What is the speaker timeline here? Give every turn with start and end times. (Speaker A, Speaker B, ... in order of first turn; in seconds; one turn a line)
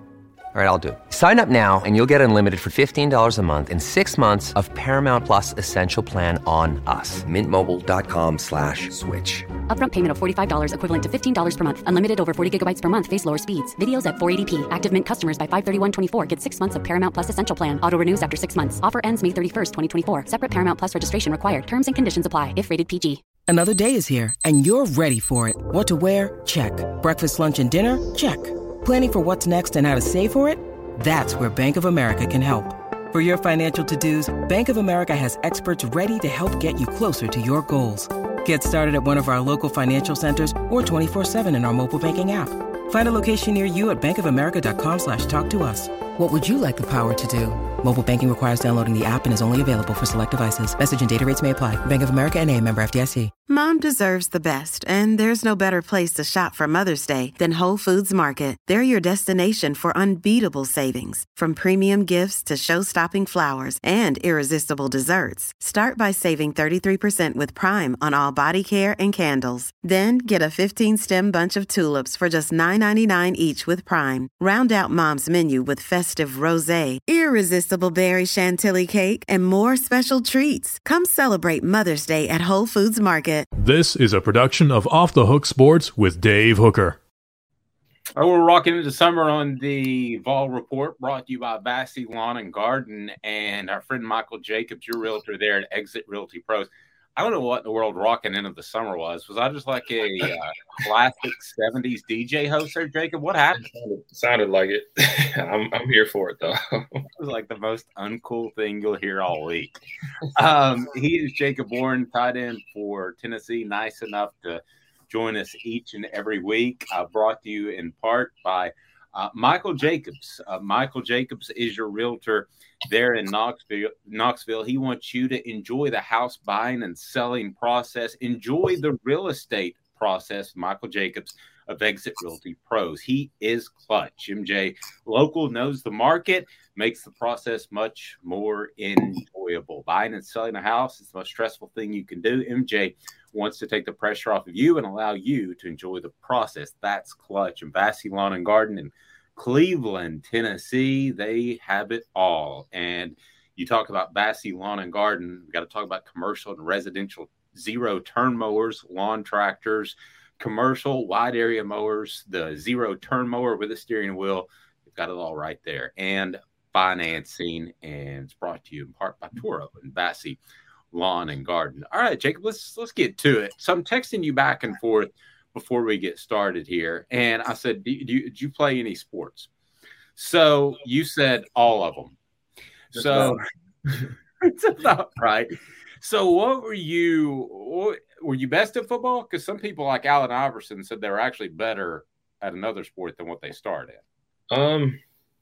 Speaker A: 0.5-9.4
Speaker B: 9.7-23.2
Speaker C: 23.5-53.3
Speaker D: 53.5-83.5
Speaker E: 83.6-87.0
Speaker F: 88.2-103.6
Speaker G: 103.5-107.0
Speaker F: 107.2-109.8
Speaker F: 110.3-170.4
Speaker F: 170.9-179.5
Speaker F: 180.2-182.2
Speaker F: 182.9-183.4
Speaker G: 182.9-183.4
Speaker F: 184.4-194.0
Speaker G: 194.5-195.0